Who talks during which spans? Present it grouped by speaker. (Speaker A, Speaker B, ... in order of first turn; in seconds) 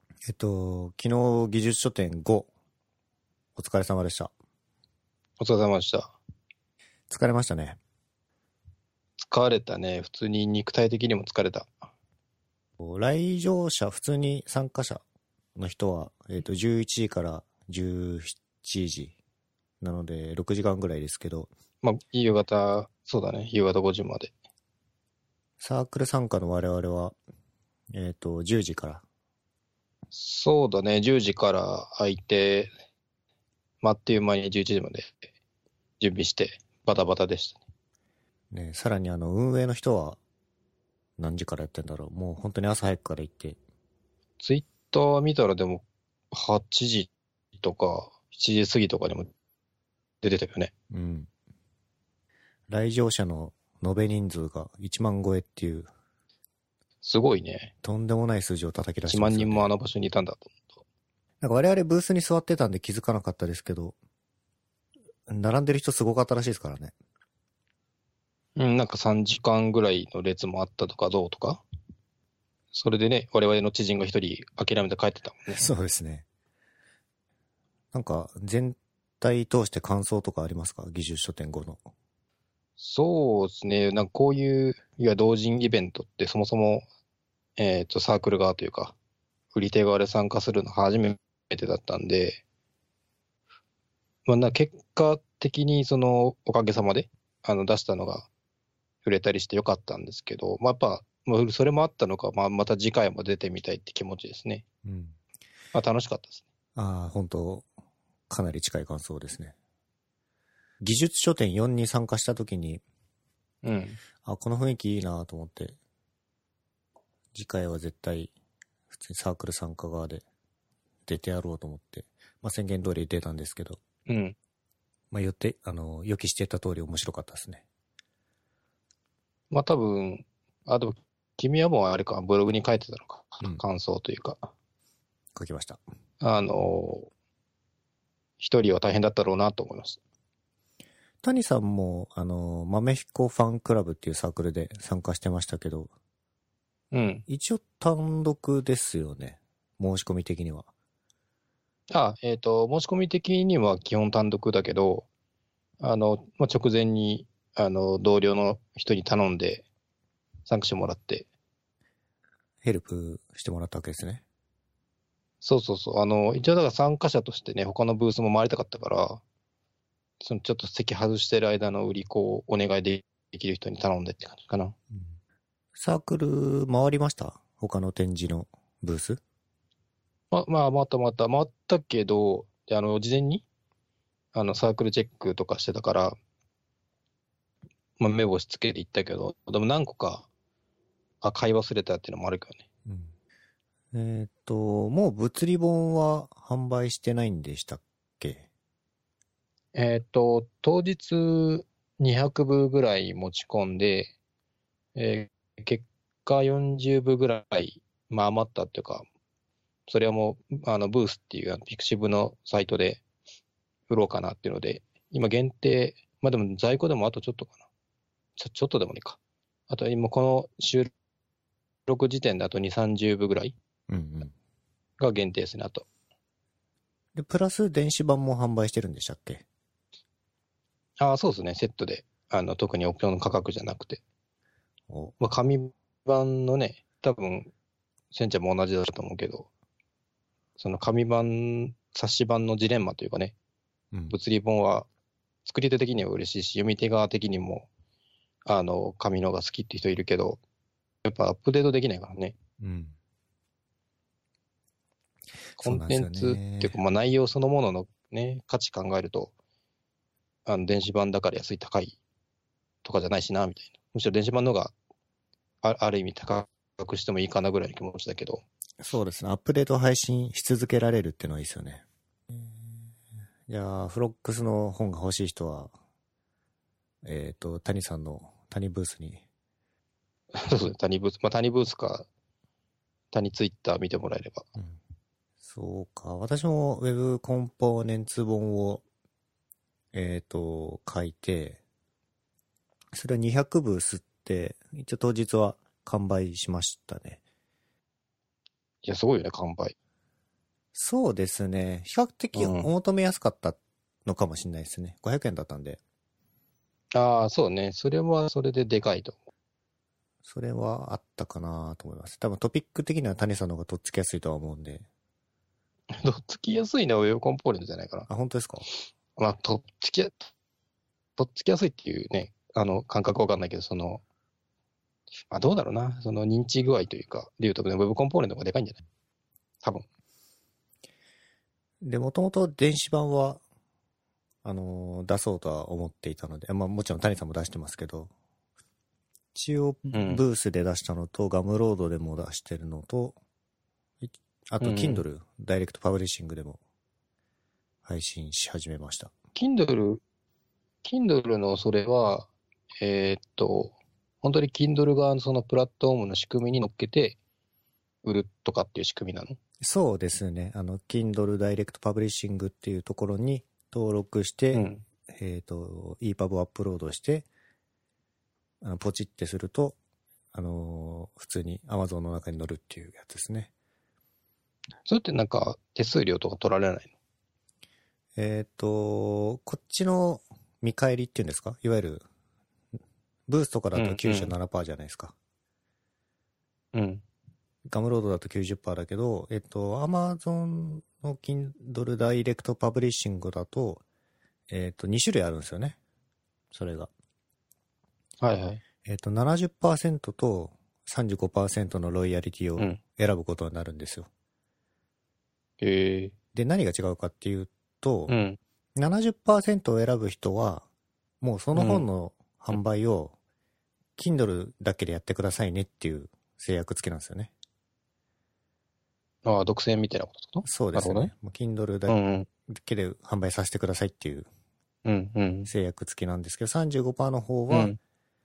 Speaker A: 0.2-2.5, 3.6-4.3, 7.1-7.8, 12.8-15.0, 15.6-19.2, 19.8-21.5, 25.6-27.2, 27.9-29.0, 38.5-40.2, 41.2-43.6, 50.9-51.3, 52.7-55.9, 57.8-59.7, 61.4-64.0, 65.3-66.9, 75.5-76.2, 77.9-81.8, 104.8-105.2, 106.8-107.7, 108.3-109.5, 110.8-112.8, 114.2-115.8, 117.3-118.3, 118.9-120.2, 121.1-123.8, 125.1-127.6, 135.3-135.8, 141.2-145.9, 147.3-150.7, 162.6-164.2, 175.8-179.2, 192.9-193.1, 193.9-198.5, 223.9-224.3, 227.2-229.4, 234.9-235.2, 252.6-253.0, 255.5-256.8, 268.8-272.7, 273.5-275.7, 277.0-279.2, 285.4-288.8, 289.9-291.6, 292.9-297.2, 300.7-305.8, 310.2-314.9, 318.1-318.7, 331.8-333.4, 334.4-338.1, 339.4-343.2, 344.0-346.6, 347.8-349.1, 359.6-367.3, 368.6-369.8, 370.3-373.5, 378.2-382.0, 383.3-385.1, 387.7-393.8, 394.5-395.8, 396.5-396.9, 398.9-404.1, 406.3-408.2, 408.8-410.7, 411.2-413.1, 414.0-417.3, 420.4-424.3, 425.5-427.8
Speaker B: 5.4-6.2, 9.2-11.8, 21.8-24.3, 30.1-32.7, 33.8-35.2, 36.0-37.6, 44.4-49.3, 50.2-50.7, 57.0-57.7, 59.1-60.8, 68.6-71.6, 72.7-75.7, 82.8-86.8, 87.6-89.0, 89.5-92.4, 94.3-98.3, 99.0-104.6, 105.7-106.5, 113.6-114.0, 124.1-124.3, 129.5-134.5, 136.2-137.1, 138.4-140.0, 146.9-147.2, 151.9-155.1, 155.8-159.7, 160.5-161.3, 165.4-169.2, 170.2-174.8, 180.3-183.4, 184.3-186.2, 188.0-190.3, 191.2-192.6, 199.8-204.1, 204.9-209.1, 209.9-213.0, 213.9-217.6, 218.4-219.2, 219.7-220.9, 221.9-223.6, 225.0-225.8, 231.0-234.0, 235.2-237.5, 238.1-239.5, 240.6-243.3, 244.1-244.9, 245.5-247.7, 248.5-250.4, 251.0-252.3, 255.6-259.3, 260.5-262.0, 262.8-264.7, 265.6-268.4, 280.3-282.1, 283.1-284.5, 298.8-299.8, 302.4-302.7, 306.9-309.2, 315.9-318.1, 319.2-320.3, 321.2-324.0, 325.3-328.8, 339.9-340.2, 344.6-345.0, 349.4-350.0, 350.8-357.2, 358.0-359.4, 364.5-364.8, 374.9-376.9, 383.7-384.3, 386.7-387.0, 398.2-398.6, 405.6-406.1, 408.1-408.4, 411.6-411.9, 419.2-421.1, 421.9-422.3, 424.9-425.5, 427.5-427.8